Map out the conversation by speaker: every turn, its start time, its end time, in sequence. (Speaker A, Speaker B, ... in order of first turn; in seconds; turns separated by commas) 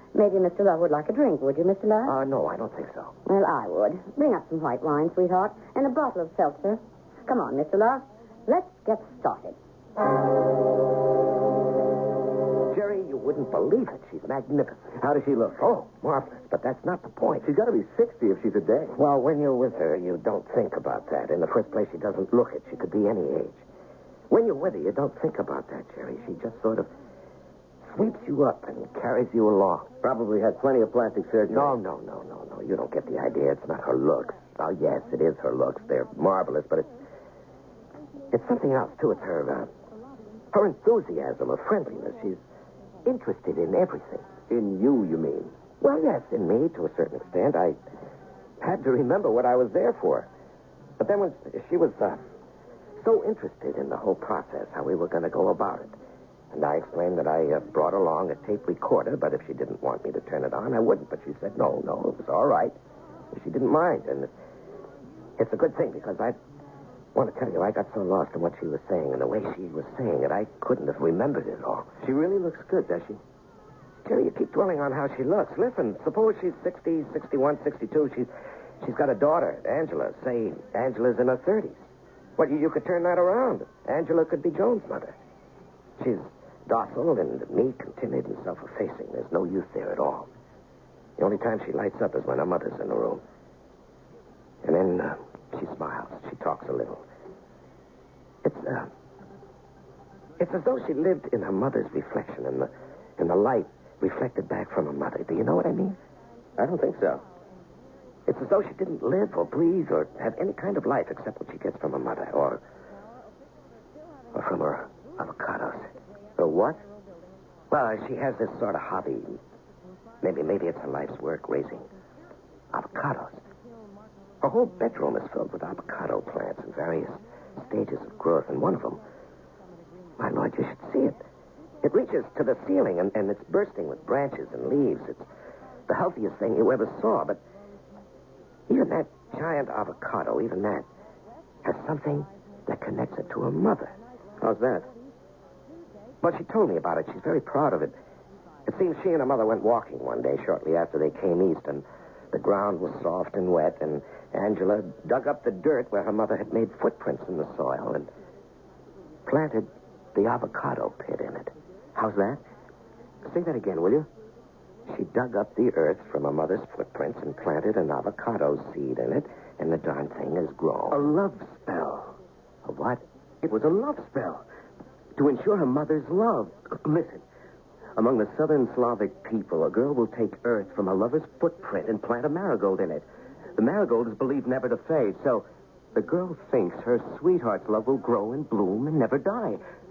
Speaker A: 0.1-2.1, Speaker B: 2.0-3.1, Speaker A: 3.2-9.6, Speaker B: 12.7-15.0, Speaker C: 15.0-15.8, Speaker B: 15.6-17.5, Speaker C: 17.4-18.9, Speaker B: 18.9-23.6, Speaker B: 24.3-26.9, Speaker B: 27.9-29.9, Speaker C: 30.0-31.8, Speaker B: 31.5-36.9, Speaker B: 38.3-39.7, Speaker B: 40.5-42.4, Speaker B: 43.0-44.3, Speaker C: 44.5-45.5, Speaker B: 45.8-47.8, Speaker B: 48.6-50.3, Speaker B: 51.0-52.2, Speaker B: 53.0-55.9, Speaker B: 56.5-62.7, Speaker B: 63.3-64.3, Speaker B: 65.4-66.3, Speaker B: 67.1-71.9, Speaker C: 72.0-73.2, Speaker B: 74.0-78.3, Speaker B: 78.8-81.8, Speaker B: 82.4-85.1, Speaker B: 86.0-90.3, Speaker B: 91.2-93.2, Speaker B: 94.6-97.0, Speaker B: 98.4-98.9, Speaker B: 100.4-106.0, Speaker C: 106.6-107.2, Speaker B: 108.3-112.6, Speaker B: 114.3-115.9, Speaker C: 116.4-116.8, Speaker B: 117.7-119.4, Speaker B: 120.2-121.9, Speaker B: 122.7-123.4, Speaker B: 124.4-129.0, Speaker B: 130.2-131.2, Speaker B: 131.8-135.2, Speaker B: 135.9-137.4, Speaker B: 138.7-140.8, Speaker B: 141.6-143.9, Speaker C: 144.4-144.9, Speaker B: 146.2-147.9, Speaker B: 148.7-158.1, Speaker B: 159.2-161.5, Speaker C: 161.9-162.4, Speaker C: 163.3-164.1, Speaker B: 164.9-171.1, Speaker C: 170.9-172.1, Speaker C: 172.8-174.4, Speaker C: 175.2-177.2, Speaker C: 178.0-183.0, Speaker C: 183.6-189.6